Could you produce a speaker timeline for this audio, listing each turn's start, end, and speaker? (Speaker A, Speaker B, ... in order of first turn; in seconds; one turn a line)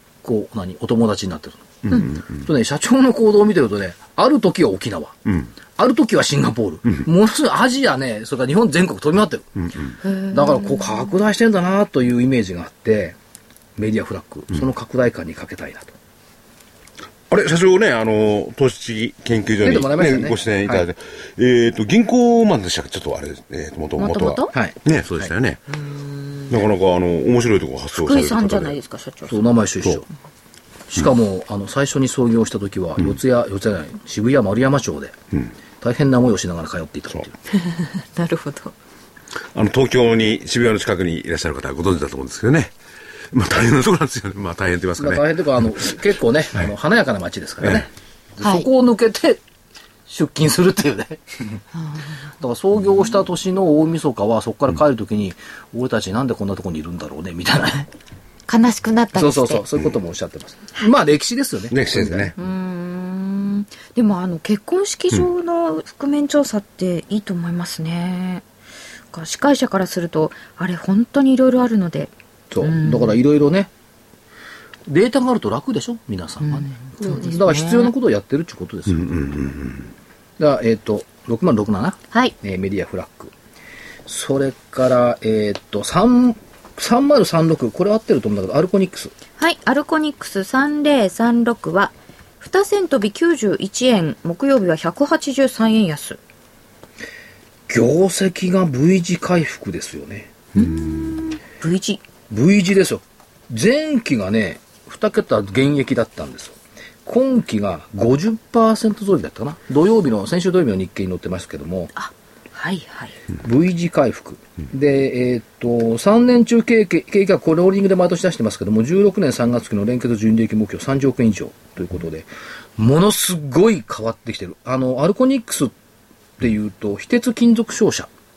Speaker A: 0.2-5.2
Speaker B: 1.9-2.4
Speaker A: 5.8-9.5
Speaker C: 10.0-11.1
Speaker A: 10.3-13.2
Speaker A: 13.8-15.9
Speaker B: 17.3-25.6
Speaker A: 19.6-20.9
Speaker C: 24.0-24.5
Speaker A: 24.5-25.3
Speaker C: 25.7-26.6
Speaker B: 26.5-28.8
Speaker C: 27.9-29.4
Speaker A: 29.3-30.0
Speaker A: 30.9-35.1
Speaker A: 35.8-37.3
Speaker C: 37.5-38.7
Speaker B: 39.5-42.7
Speaker B: 43.3-45.2
Speaker A: 45.0-49.4
Speaker C: 48.4-48.7
Speaker A: 50.1-51.2
Speaker C: 51.8-52.0
Speaker A: 52.4-57.9
Speaker C: 58.5-59.6
Speaker A: 59.1-62.3
Speaker B: 61.7-62.3
Speaker C: 62.4-68.4
Speaker C: 69.1-73.2
Speaker A: 72.5-73.7
Speaker A: 74.9-79.3
Speaker C: 76.4-77.9
Speaker B: 79.0-79.9
Speaker A: 80.4-83.3
Speaker A: 84.0-89.1
Speaker C: 89.4-96.2
Speaker A: 97.7-100.3
Speaker C: 100.5-102.0
Speaker B: 100.6-101.2
Speaker A: 102.3-111.9
Speaker C: 112.0-113.2
Speaker A: 113.4-125.7
Speaker A: 126.4-128.1